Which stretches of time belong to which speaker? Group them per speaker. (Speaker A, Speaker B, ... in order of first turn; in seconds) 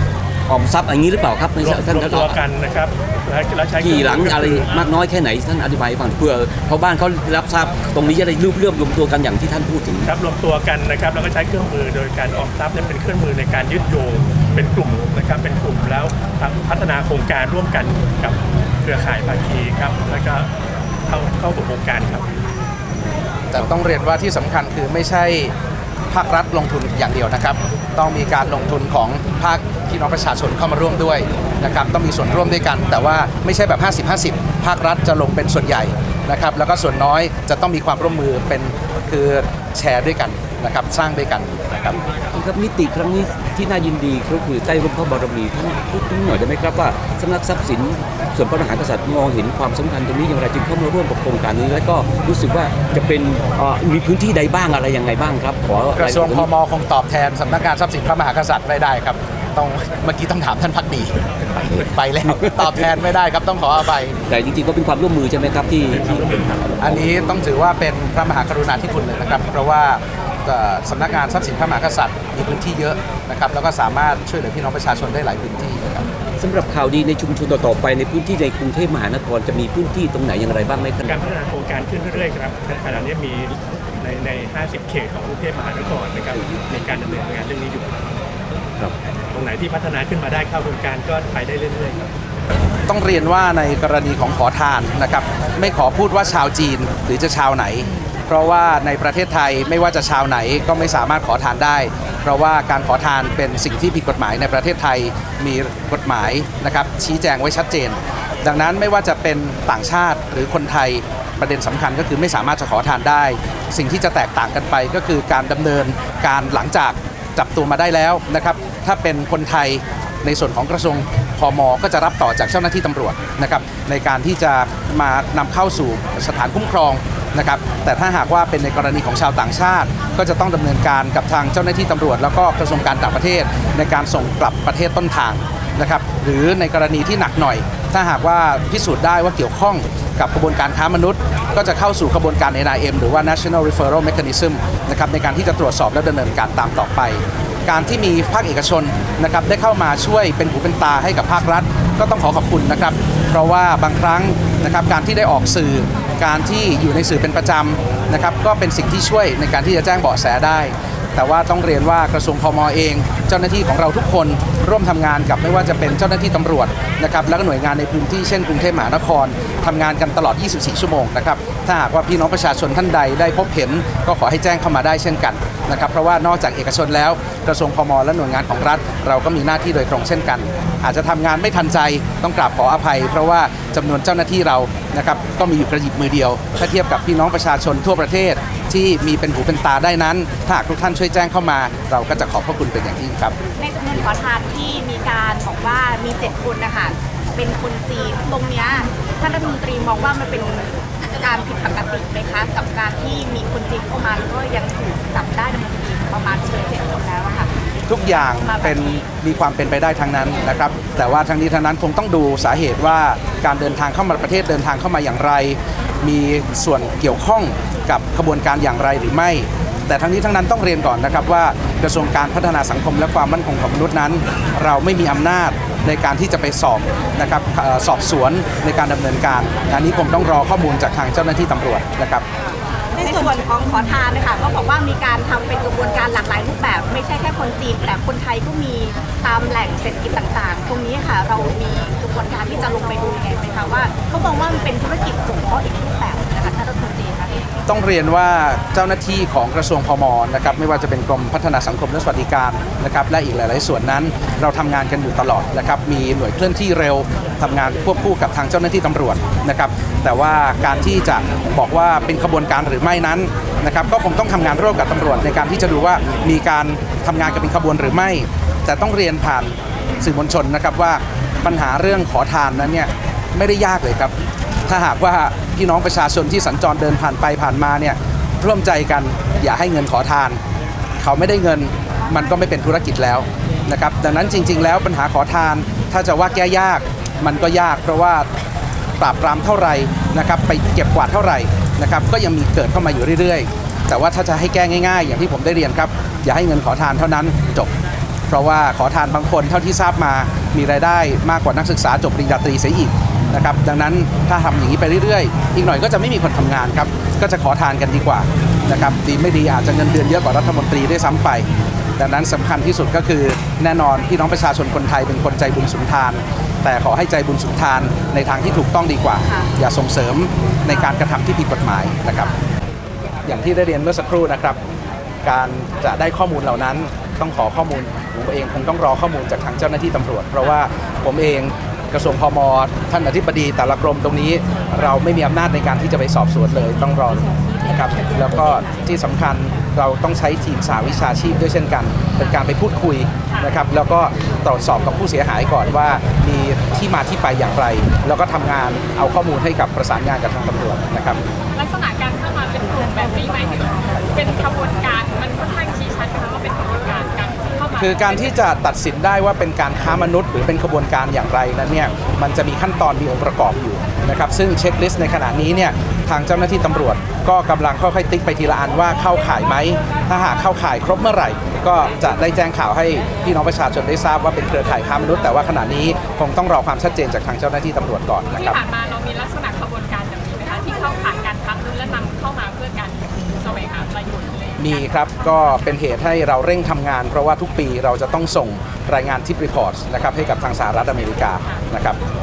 Speaker A: 0.5-2.4, 3.8-10.1, 42.3-56.5, 64.3-66.7, 76.4-81.2
Speaker B: 1.6-4.8, 10.1-20.5, 21.1-22.3, 81.0-88.0, 89.3-92.1
Speaker C: 23.5-25.5, 26.1-42.0, 56.0-64.2, 66.8-76.1, 92.9-193.3, 207.9-232.2, 247.7-274.1, 274.7-280.4, 281.0-288.3, 289.0-297.7, 298.3-322.3, 323.2-324.6, 325.2-351.2, 357.8-378.6, 384.6-392.0
Speaker D: 193.6-207.5, 208.3-208.8, 233.0-247.4
Speaker E: 351.5-358.5, 378.3-385.6, 391.2-391.6